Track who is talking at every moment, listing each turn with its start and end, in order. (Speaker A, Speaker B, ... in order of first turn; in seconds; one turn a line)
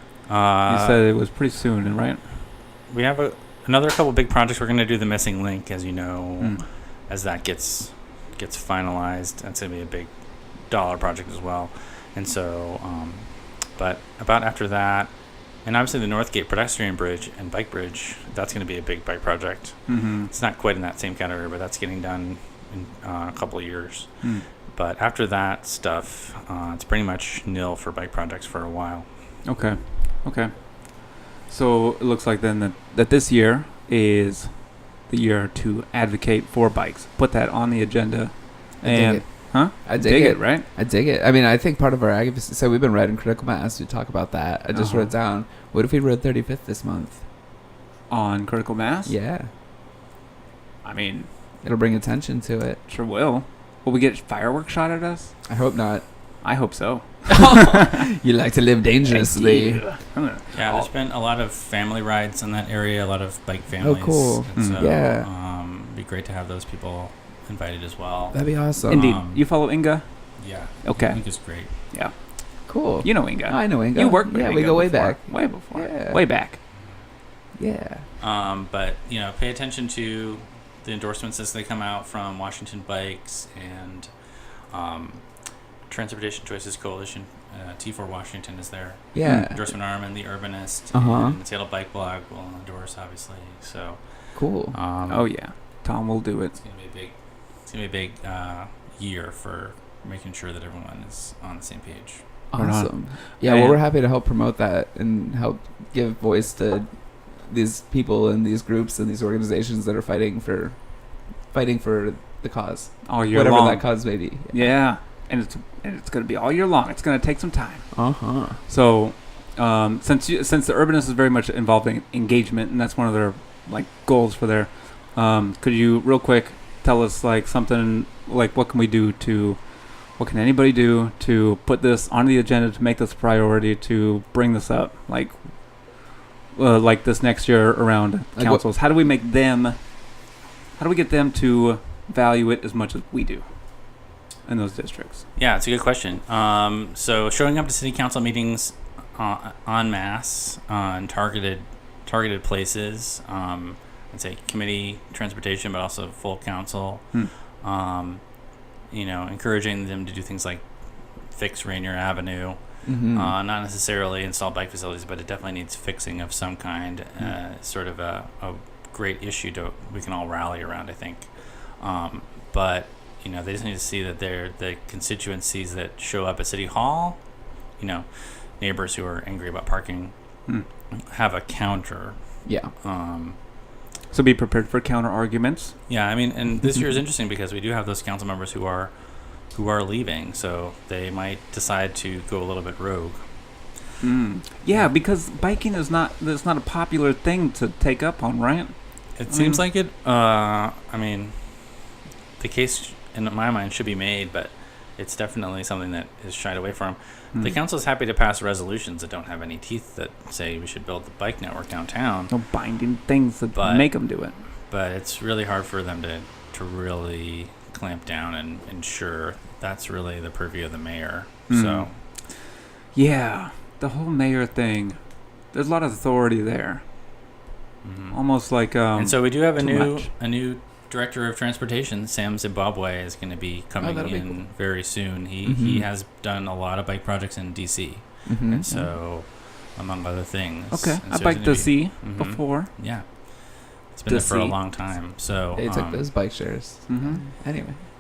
Speaker A: 0.2-1.0
Speaker B: 0.7-2.2
Speaker A: 2.9-15.1
Speaker B: 6.4-6.6
Speaker A: 15.6-29.1
Speaker B: 19.9-20.3
Speaker B: 29.4-40.6
Speaker C: 38.8-47.2
Speaker B: 44.7-45.1
Speaker B: 48.1-49.1
Speaker C: 49.0-49.5
Speaker B: 50.8-51.3
Speaker C: 51.6-52.8
Speaker B: 52.9-55.4
Speaker C: 55.5-56.0
Speaker B: 56.4-58.0
Speaker C: 57.3-59.8
Speaker B: 59.0-60.9
Speaker A: 60.5-69.4
Speaker C: 63.8-65.3
Speaker B: 64.5-64.8
Speaker C: 68.3-69.1
Speaker B: 68.9-76.6
Speaker A: 70.4-71.7
Speaker C: 72.7-76.2
Speaker C: 77.5-78.0
Speaker A: 78.2-85.3
Speaker A: 85.8-95.3
Speaker C: 89.1-89.7
Speaker B: 89.2-89.5
Speaker C: 90.9-91.4
Speaker C: 94.3-94.8
Speaker B: 95.1-96.5
Speaker A: 96.5-102.2
Speaker C: 102.5-110.8
Speaker B: 102.5-103.8
Speaker C: 111.5-114.8
Speaker B: 113.0-145.3
Speaker C: 117.9-118.6
Speaker C: 138.3-138.6
Speaker A: 145.3-158.2
Speaker A: 158.9-160.6
Speaker A: 161.3-177.2
Speaker C: 162.8-163.3
Speaker A: 177.8-180.1
Speaker A: 180.9-183.4
Speaker C: 182.4-182.7
Speaker B: 184.1-185.9
Speaker A: 185.9-193.2
Speaker B: 194.0-199.6
Speaker A: 199.2-201.7
Speaker A: 202.4-212.3
Speaker B: 207.3-207.6
Speaker B: 212.3-214.4
Speaker A: 213.5-214.1
Speaker A: 214.7-221.9
Speaker B: 221.5-226.8
Speaker A: 227.8-228.2
Speaker B: 228.1-230.1
Speaker A: 228.9-246.1
Speaker C: 233.8-234.5
Speaker C: 235.4-235.8
Speaker C: 238.2-238.9
Speaker B: 240.7-242.7
Speaker B: 244.1-244.6
Speaker C: 245.5-247.8
Speaker B: 246.9-247.2